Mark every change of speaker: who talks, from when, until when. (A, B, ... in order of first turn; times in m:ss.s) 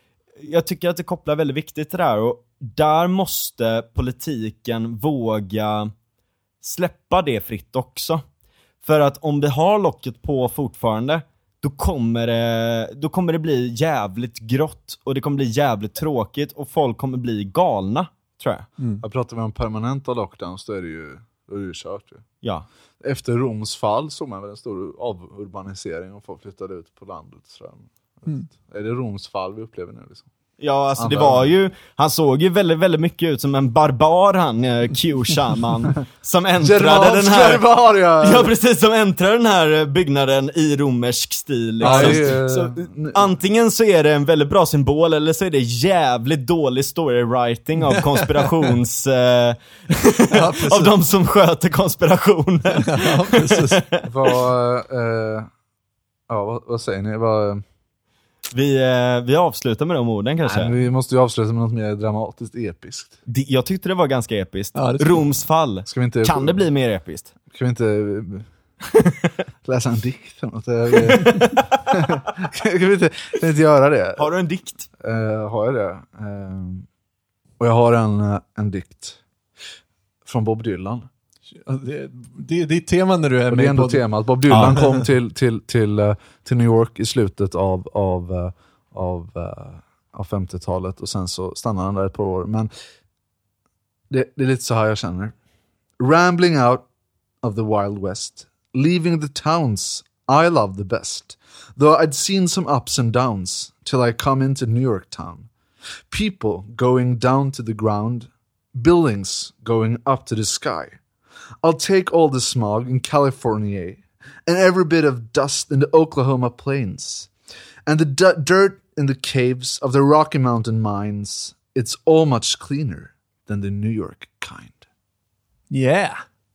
0:00.4-0:05.9 A
0:06.6-0:08.2 A
0:08.8-0:18.7 A
0:19.0-0:22.2 B
0:23.0-0:30.2 B
0:30.6-0:37.7 A
0:31.0-0:31.5 B
0:36.6-0:38.5 B
0:38.2-0:54.4 A
0:41.8-0:43.2 B
0:41.8-0:42.2 C
0:47.9-0:48.5 C
0:50.3-0:50.9 C
0:52.7-0:53.8 C
0:54.1-0:55.5 B
0:56.3-0:57.6 B
0:58.5-1:00.7 A
1:00.4-1:03.2 B
1:03.3-1:07.3 A
1:04.8-1:05.2 C
1:05.9-1:06.6 B
1:07.5-1:08.5 B
1:08.9-1:09.3 A
1:09.6-1:14.3 B
1:10.9-1:11.8 A
1:14.2-1:14.9 A
1:15.0-1:16.8 B
1:17.6-1:19.2 B
1:20.2-1:21.1 B
1:21.6-1:24.0 C
1:23.5-1:32.7 B
1:24.5-1:24.8 A
1:34.1-1:35.3 B
1:36.0-1:36.8 B
1:37.4-1:45.5 B
1:46.1-1:51.0 B
1:51.6-1:57.3 B
1:57.9-2:04.8 B
2:05.7-2:06.2 C